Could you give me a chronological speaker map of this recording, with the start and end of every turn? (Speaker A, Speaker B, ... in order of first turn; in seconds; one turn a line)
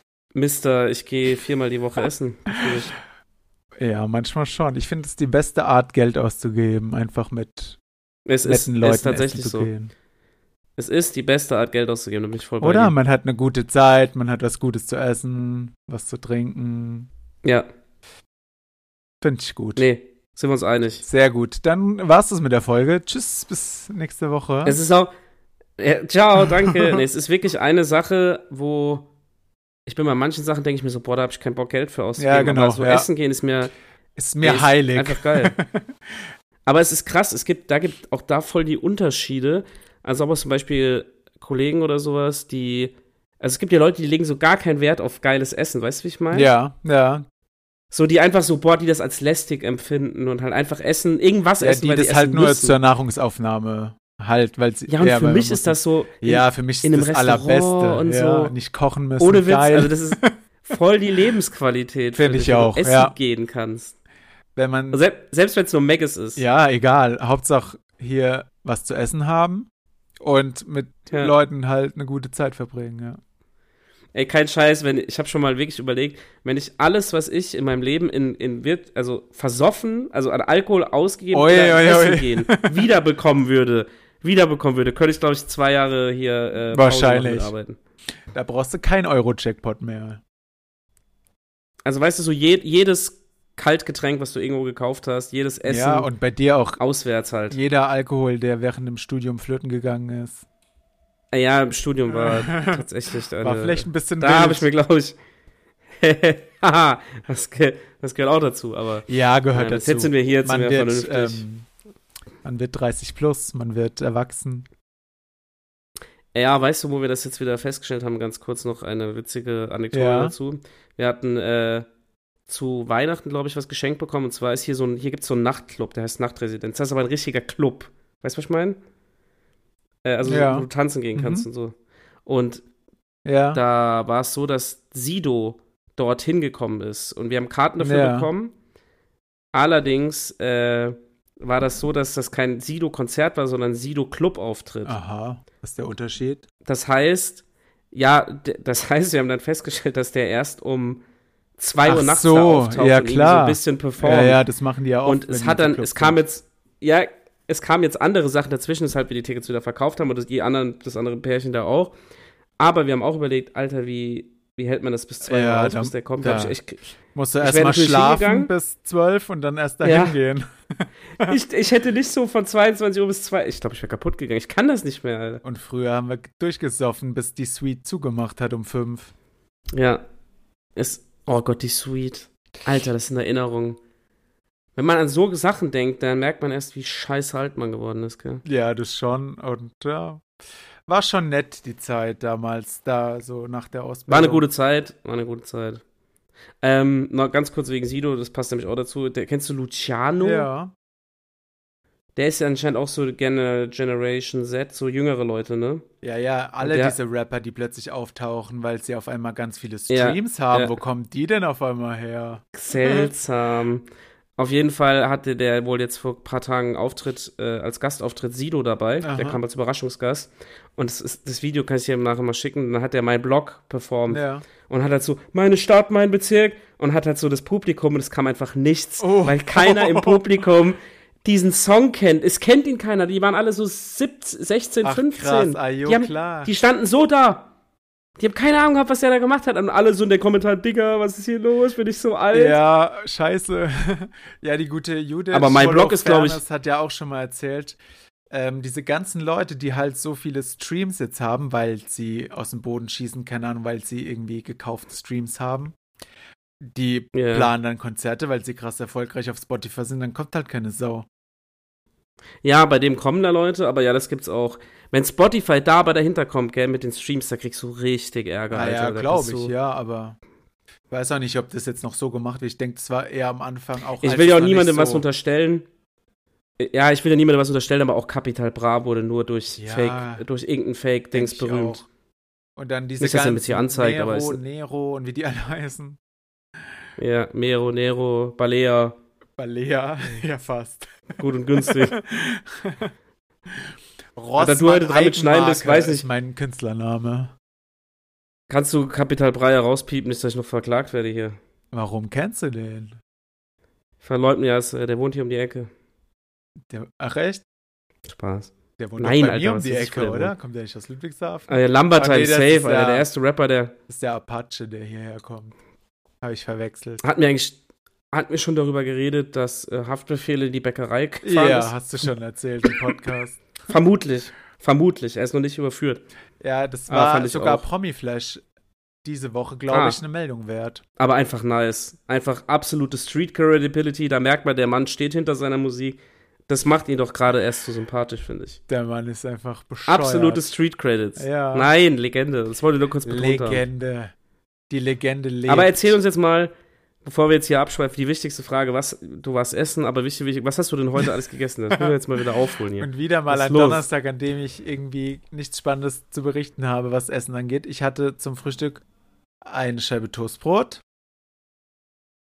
Speaker A: 0.3-3.0
Speaker B: 3.8-7.8
Speaker A: 8.3-9.7
Speaker B: 8.4-9.9
Speaker A: 10.8-13.0
Speaker B: 12.6-17.1
Speaker B: 19.2-19.9
Speaker A: 19.8-21.1
Speaker B: 21.1-24.8
Speaker A: 24.6-25.1
Speaker A: 25.8-29.1
Speaker B: 26.4-27.0
Speaker A: 29.9-33.7
Speaker B: 32.2-33.1
Speaker B: 34.2-35.9
Speaker A: 34.4-35.6
Speaker A: 36.7-46.5
Speaker B: 46.3-47.2
Speaker A: 47.9-52.8
Speaker B: 51.6-60.3
Speaker A: 54.9-58.5
Speaker A: 59.2-64.0
Speaker B: 62.2-63.1
Speaker B: 64.6-65.0
Speaker A: 64.9-66.4
Speaker B: 66.4-69.7
Speaker B: 70.2-73.2
Speaker A: 74.2-87.8
Speaker B: 81.3-82.9
Speaker B: 86.7-87.5
Speaker B: 88.3-90.2
Speaker A: 91.8-96.1
Speaker B: 95.7-96.8
Speaker A: 96.8-97.6
Speaker B: 97.5-100.5
Speaker A: 101.3-105.2
Speaker B: 102.1-102.9
Speaker B: 103.4-104.7
Speaker A: 106.0-111.5
Speaker B: 109.1-111.7
Speaker B: 112.4-114.7
Speaker A: 116.3-121.9
Speaker B: 119.9-120.3
Speaker A: 122.5-128.8
Speaker A: 130.1-131.7
Speaker B: 130.2-131.5
Speaker A: 132.3-132.6
Speaker B: 133.2-133.6
Speaker A: 133.5-138.5
Speaker B: 137.8-138.3
Speaker A: 139.5-145.0
Speaker B: 144.8-146.4
Speaker A: 146.7-151.0
Speaker A: 151.6-154.4
Speaker B: 151.8-156.2
Speaker A: 155.1-161.9
Speaker A: 162.6-166.8
Speaker B: 165.2-166.6
Speaker B: 167.1-171.3
Speaker A: 167.4-168.5
Speaker A: 169.8-170.2
Speaker A: 171.2-175.4
Speaker B: 175.4-179.1
Speaker A: 179.7-180.0
Speaker A: 180.8-183.8
Speaker A: 184.8-188.4
Speaker B: 188.4-190.2
Speaker B: 190.9-194.4
Speaker A: 194.1-195.8
Speaker A: 196.6-200.5
Speaker B: 200.2-200.7
Speaker A: 202.2-205.8
Speaker B: 206.0-213.1
Speaker A: 206.6-206.9
Speaker A: 209.9-210.8
Speaker A: 212.5-237.5
Speaker B: 219.0-219.4
Speaker B: 224.1-224.5
Speaker B: 229.0-230.4
Speaker B: 234.8-236.5
Speaker A: 238.2-242.6
Speaker B: 242.3-247.8
Speaker A: 245.3-246.4
Speaker B: 248.3-255.8
Speaker B: 256.6-261.1
Speaker A: 257.1-257.5
Speaker A: 262.4-269.5
Speaker B: 268.5-270.2
Speaker B: 270.9-275.1
Speaker A: 274.0-275.7
Speaker A: 276.6-281.8
Speaker B: 279.6-280.2
Speaker B: 281.1-281.9
Speaker B: 282.6-286.0
Speaker A: 283.0-284.4
Speaker A: 287.0-289.0
Speaker B: 289.4-291.1
Speaker A: 291.2-292.0
Speaker B: 291.6-292.9
Speaker B: 293.5-297.3
Speaker A: 294.4-296.1
Speaker A: 298.5-301.4
Speaker B: 301.7-303.0
Speaker A: 304.0-305.7
Speaker B: 306.7-307.4
Speaker A: 308.1-310.3
Speaker B: 308.8-313.1
Speaker A: 311.5-313.7
Speaker B: 313.9-315.6
Speaker B: 316.2-317.0
Speaker A: 317.0-317.6
Speaker A: 318.1-321.7
Speaker B: 321.2-323.4
Speaker A: 323.7-326.0
Speaker B: 326.4-328.4
Speaker A: 326.9-327.7
Speaker B: 329.0-330.8
Speaker A: 329.7-330.0
Speaker A: 331.0-338.6
Speaker B: 338.7-340.5
Speaker A: 339.9-343.6
Speaker B: 341.2-341.7
Speaker B: 343.0-344.1
Speaker B: 344.7-346.0
Speaker A: 345.5-346.5
Speaker A: 347.0-353.8
Speaker B: 352.8-358.8
Speaker B: 359.4-360.8